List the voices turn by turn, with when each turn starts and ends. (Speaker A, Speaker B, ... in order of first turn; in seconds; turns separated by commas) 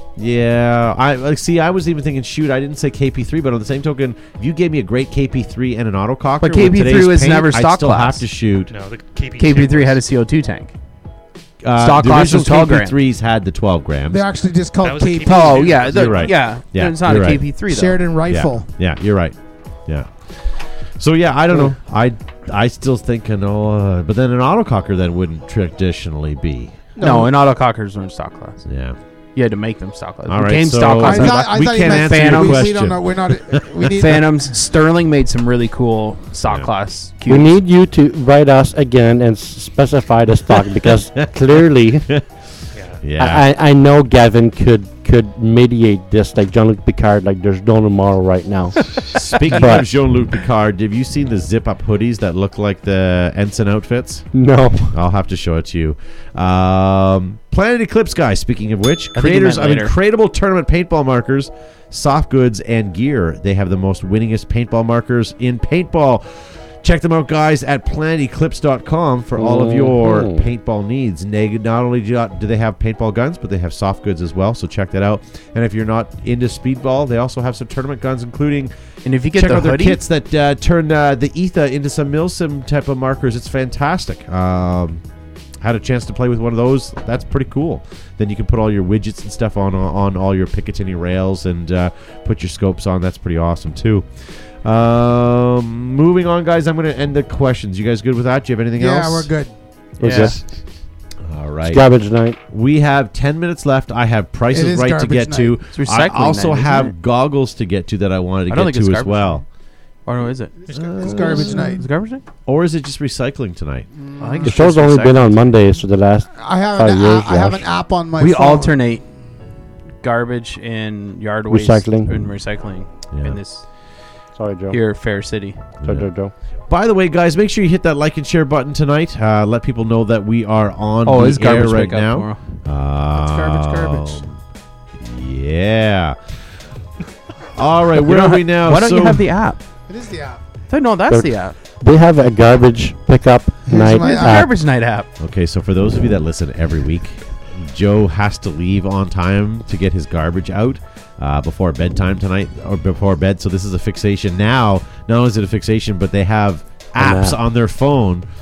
Speaker A: 0.2-8.7, Speaker B: 6.4-8.2, Speaker C: 8.7-10.0, Speaker B: 9.4-10.7, Speaker A: 11.6-14.2, Speaker B: 11.8-13.0, Speaker D: 14.1-15.8, Speaker C: 14.8-16.4, Speaker B: 15.2-18.0, Speaker A: 15.9-17.4, Speaker D: 17.7-18.7, Speaker A: 18.3-26.8, Speaker D: 27.0-27.3, Speaker B: 27.0-28.6, Speaker A: 28.6-29.0, Speaker B: 29.4-32.8, Speaker A: 30.3-33.8, Speaker D: 31.0-34.4, Speaker B: 33.9-37.5, Speaker E: 37.3-42.1, Speaker A: 40.5-41.3, Speaker C: 42.7-43.0, Speaker A: 43.0-43.5, Speaker E: 43.2-49.9, Speaker A: 49.1-54.3, Speaker E: 54.3-55.0, Speaker A: 54.9-78.7, Speaker B: 59.1-59.9, Speaker E: 69.4-70.5, Speaker B: 79.0-80.0, Speaker A: 79.4-85.0, Speaker A: 85.6-94.1, Speaker A: 94.6-99.3, Speaker D: 98.8-99.5, Speaker E: 100.0-100.4, Speaker B: 100.0-100.4, Speaker A: 101.2-101.8, Speaker E: 101.7-102.4, Speaker A: 102.5-109.4, Speaker D: 104.5-105.6, Speaker B: 105.7-106.9, Speaker B: 108.5-109.4, Speaker B: 110.1-112.2, Speaker D: 110.7-111.9, Speaker C: 110.7-111.0, Speaker A: 110.7-111.8, Speaker A: 112.5-113.9, Speaker D: 113.9-114.6, Speaker B: 114.2-115.4, Speaker E: 114.4-117.7, Speaker D: 116.4-118.8, Speaker B: 118.2-119.0, Speaker B: 120.0-123.6, Speaker E: 121.5-122.3, Speaker A: 123.1-123.4, Speaker E: 124.4-124.8, Speaker B: 124.7-125.6, Speaker A: 125.8-126.1, Speaker E: 125.8-126.3, Speaker A: 126.7-134.4, Speaker B: 131.1-132.4, Speaker D: 133.1-134.2, Speaker A: 135.0-136.2, Speaker A: 137.5-139.3, Speaker B: 137.9-139.6, Speaker D: 139.9-140.4, Speaker B: 140.7-141.6, Speaker E: 141.1-144.5, Speaker D: 143.7-144.4, Speaker B: 143.9-145.1, Speaker A: 145.2-158.3, Speaker E: 157.0-157.4